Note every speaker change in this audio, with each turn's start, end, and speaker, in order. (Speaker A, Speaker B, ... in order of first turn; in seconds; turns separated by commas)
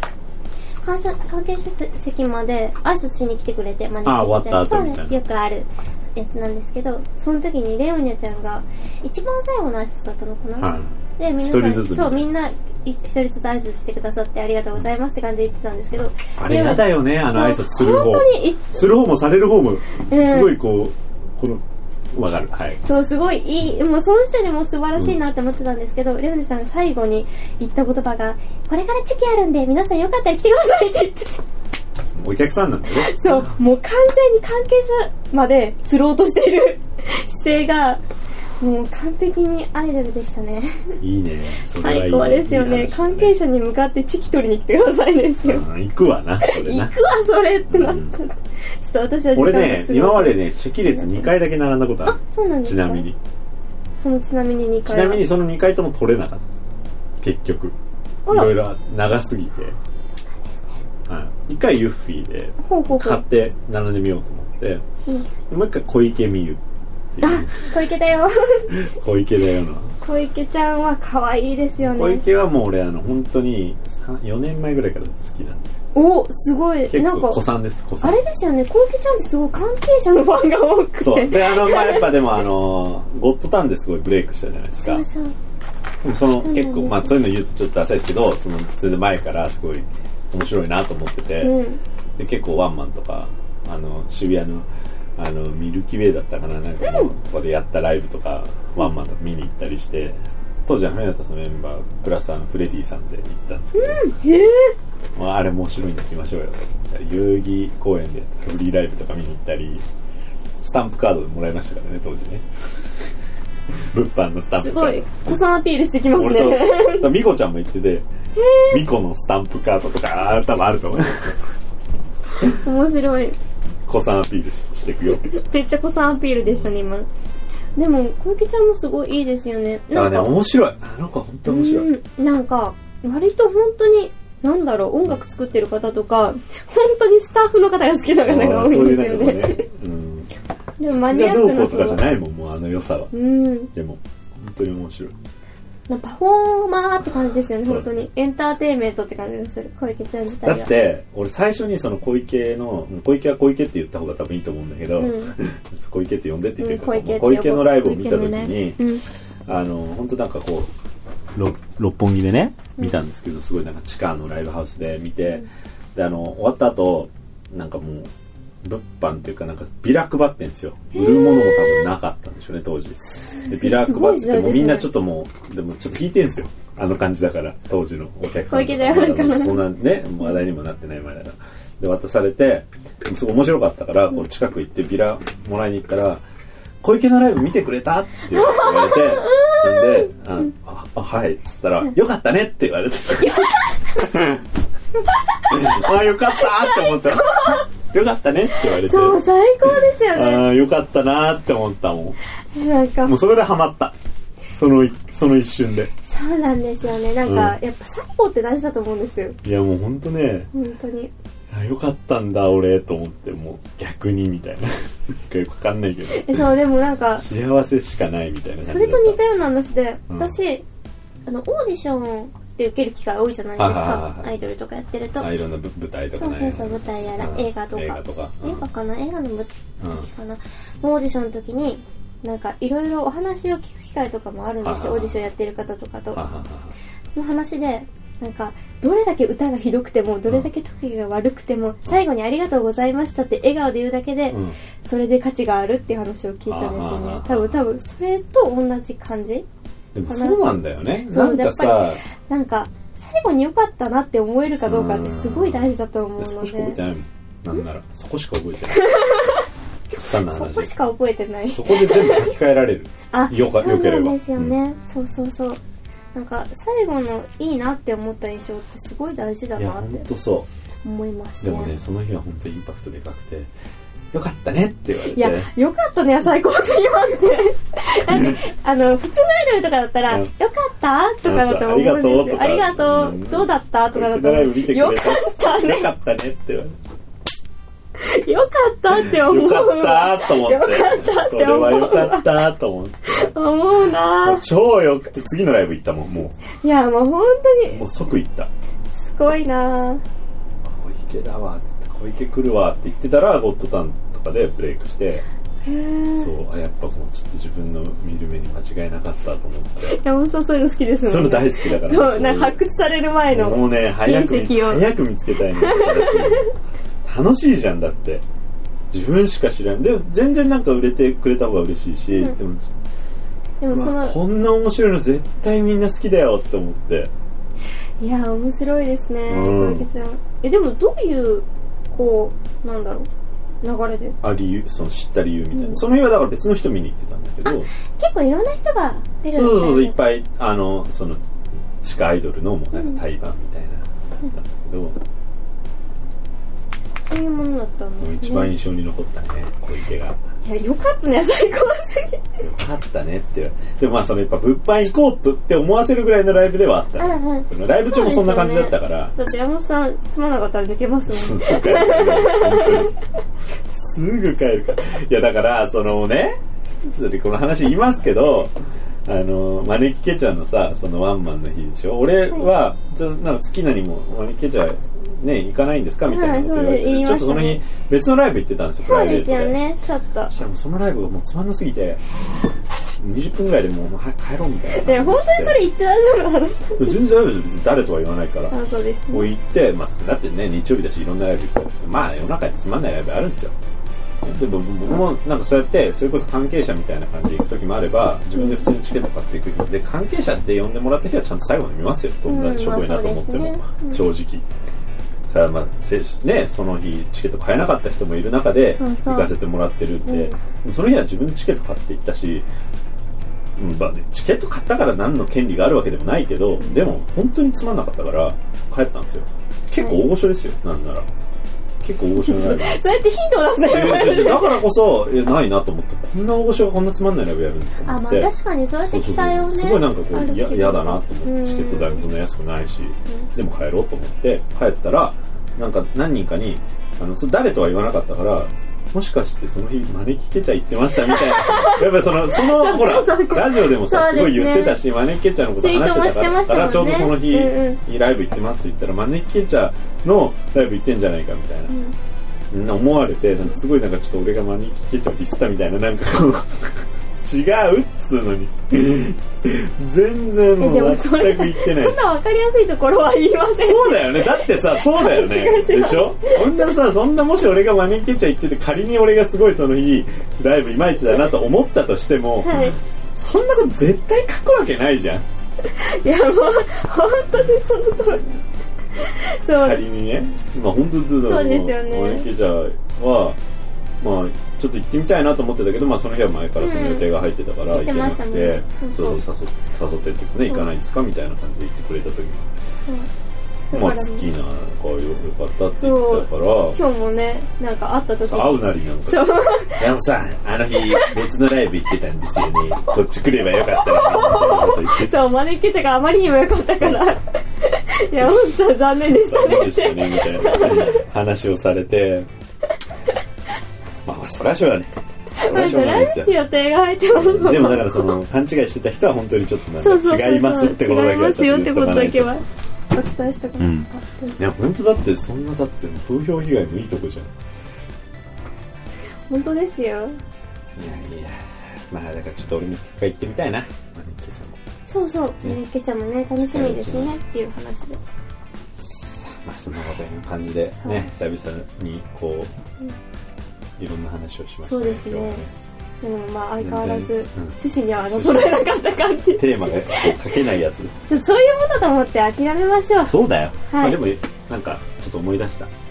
Speaker A: 0.8-18.9, Speaker B: 4.0-5.2, Speaker B: 10.6-12.3, Speaker B: 16.4-22.8, Speaker A: 20.0-20.6, Speaker A: 22.8-31.4, Speaker B: 32.1-33.5, Speaker A: 32.9-38.0, Speaker A: 38.6-41.0, Speaker B: 41.0-43.4, Speaker A: 41.7-45.7, Speaker B: 45.5-46.9, Speaker A: 46.4-51.3, Speaker B: 47.7-48.2, Speaker B: 49.4-53.2, Speaker A: 52.0-53.1, Speaker A: 54.0-55.3, Speaker B: 54.8-56.4, Speaker B: 57.2-57.8, Speaker A: 58.3-58.6, Speaker B: 58.3-59.8, Speaker A: 60.2-60.8, Speaker B: 61.1-64.8, Speaker A: 62.6-63.2, Speaker B: 65.5-66.6, Speaker B: 67.1-67.5, Speaker A: 67.2-68.8, Speaker B: 68.7-70.0, Speaker A: 70.0-72.2, Speaker B: 71.8-75.8, Speaker A: 75.9-77.4, Speaker B: 76.9-78.2, Speaker A: 78.0-82.2, Speaker B: 81.0-85.0, Speaker A: 84.8-85.4, Speaker B: 86.0-91.6, Speaker A: 86.4-87.2, Speaker A: 91.4-91.8, Speaker B: 92.2-104.1, Speaker A: 96.8-97.1, Speaker A: 103.7-104.8, Speaker B: 105.2-109.8, Speaker B: 110.6-112.5, Speaker B: 113.9-115.3, Speaker A: 114.5-117.1, Speaker B: 116.2-118.1, Speaker A: 118.4-118.8, Speaker B: 118.7-121.4, Speaker A: 122.5-123.4, Speaker B: 123.9-125.2, Speaker A: 125.3-127.1, Speaker A: 127.8-130.4, Speaker B: 129.9-131.9, Speaker A: 131.4-139.7, Speaker B: 138.2-140.3, Speaker A: 140.8-142.0, Speaker B: 140.9-143.1, Speaker A: 143.1-143.7, Speaker B: 143.7-145.2, Speaker A: 145.9-150.7, Speaker B: 147.4-147.9, Speaker B: 150.4-158.8, Speaker A: 155.0-155.3, Speaker A: 156.6-159.0, Speaker B: 159.5-160.7, Speaker B: 161.3-168.1, Speaker B: 168.6-186.2, Speaker A: 170.9-171.9, Speaker A: 173.4-174.9, Speaker A: 178.4-179.6, Speaker B: 186.8-194.4, Speaker A: 188.3-190.5, Speaker A: 193.2-194.1, Speaker A: 195.3-197.7, Speaker B: 195.5-202.2, Speaker A: 198.6-200.5, Speaker A: 202.6-203.2, Speaker B: 203.1-203.9, Speaker B: 204.5-205.9, Speaker A: 206.0-209.4, Speaker B: 207.2-207.6, Speaker B: 209.4-210.5, Speaker A: 210.5-211.1, Speaker B: 211.5-216.5, Speaker A: 216.1-217.3, Speaker B: 217.2-219.2, Speaker A: 218.6-220.7, Speaker B: 220.1-220.4, Speaker A: 221.3-225.3, Speaker B: 223.6-224.3, Speaker B: 225.2-228.7, Speaker A: 226.1-236.2, Speaker B: 229.8-230.1, Speaker B: 234.6-235.2, Speaker B: 236.1-236.7, Speaker A: 237.2-249.5, Speaker B: 244.3-244.6, Speaker B: 246.5-247.6, Speaker B: 249.9-252.0, Speaker A: 250.1-256.8, Speaker B: 254.7-258.9, Speaker A: 258.7-259.4, Speaker B: 259.9-260.7, Speaker A: 260.3-262.3, Speaker B: 261.5-264.6, Speaker A: 263.1-265.6, Speaker A: 266.1-270.1, Speaker B: 269.6-270.5, Speaker A: 270.8-271.8, Speaker B: 271.4-273.5, Speaker B: 274.1-275.5, Speaker A: 275.1-285.9, Speaker B: 281.2-286.8, Speaker A: 288.0-292.5, Speaker B: 288.9-293.3, Speaker A: 293.1-294.4, Speaker B: 294.2-296.4, Speaker A: 296.6-297.8, Speaker B: 297.7-298.5, Speaker A: 298.9-300.0, Speaker B: 300.6-305.2, Speaker A: 305.6-306.3, Speaker B: 306.1-310.0, Speaker A: 309.9-314.9, Speaker B: 311.1-312.6, Speaker B: 313.3-316.5, Speaker A: 315.6-316.5, Speaker B: 317.0-318.2, Speaker B: 318.9-322.7, Speaker A: 323.6-324.2, Speaker B: 323.7-327.1, Speaker A: 328.0-333.1, Speaker B: 329.3-329.9, Speaker A: 333.6-334.2, Speaker B: 334.2-337.7, Speaker A: 335.5-335.8, Speaker A: 337.5-340.0, Speaker B: 339.3-341.2, Speaker B: 341.8-345.0, Speaker A: 342.7-343.0, Speaker A: 347.0-348.6, Speaker B: 348.0-350.2, Speaker A: 350.4-352.2, Speaker B: 352.4-359.1, Speaker A: 357.0-362.9, Speaker B: 361.1-363.0, Speaker B: 363.7-368.5, Speaker B: 369.1-379.6, Speaker A: 376.1-377.6, Speaker A: 378.8-380.3, Speaker B: 380.3-382.0, Speaker B: 383.0-385.6, Speaker A: 384.7-387.0, Speaker B: 386.8-388.6, Speaker A: 388.5-389.3, Speaker B: 389.1-393.6, Speaker B: 394.2-404.5, Speaker A: 398.4-398.7, Speaker A: 402.3-404.0, Speaker B: 405.3-412.5, Speaker A: 408.7-409.3, Speaker A: 410.1-410.4, Speaker B: 413.6-421.1, Speaker A: 419.8-420.1, Speaker B: 421.8-422.8, Speaker A: 422.2-424.6, Speaker B: 423.7-428.3, Speaker A: 427.9-432.1, Speaker B: 428.9-451.7, Speaker A: 440.9-444.8, Speaker A: 445.6-447.8, Speaker A: 451.7-451.9, Speaker B: 452.5-462.1, Speaker A: 460.6-466.7, Speaker B: 463.6-475.2, Speaker A: 472.4-472.8, Speaker A: 475.6-478.3, Speaker A: 479.0-479.9, Speaker B: 479.6-483.4, Speaker A: 481.2-482.3, Speaker B: 484.0-492.6, Speaker A: 486.6-487.1, Speaker A: 487.7-489.2, Speaker A: 490.4-490.7, Speaker A: 492.8-493.1, Speaker A: 493.7-494.3, Speaker B: 493.7-496.8, Speaker A: 495.8-499.9, Speaker B: 498.3-505.1, Speaker A: 503.7-511.0, Speaker B: 506.8-507.1, Speaker B: 508.2-512.3, Speaker B: 514.0-514.9, Speaker A: 515.4-518.2, Speaker B: 515.4-516.3, Speaker B: 517.1-522.4, Speaker A: 519.8-524.4, Speaker B: 523.6-527.3, Speaker A: 529.3-530.2, Speaker B: 530.8-534.6, Speaker A: 534.9-538.0, Speaker B: 536.4-537.1, Speaker B: 538.7-542.5, Speaker A: 540.8-541.1, Speaker B: 543.8-545.5, Speaker A: 544.6-545.4, Speaker A: 546.0-550.2, Speaker B: 546.6-548.7, Speaker B: 549.4-550.9, Speaker A: 551.1-554.0, Speaker B: 553.1-555.7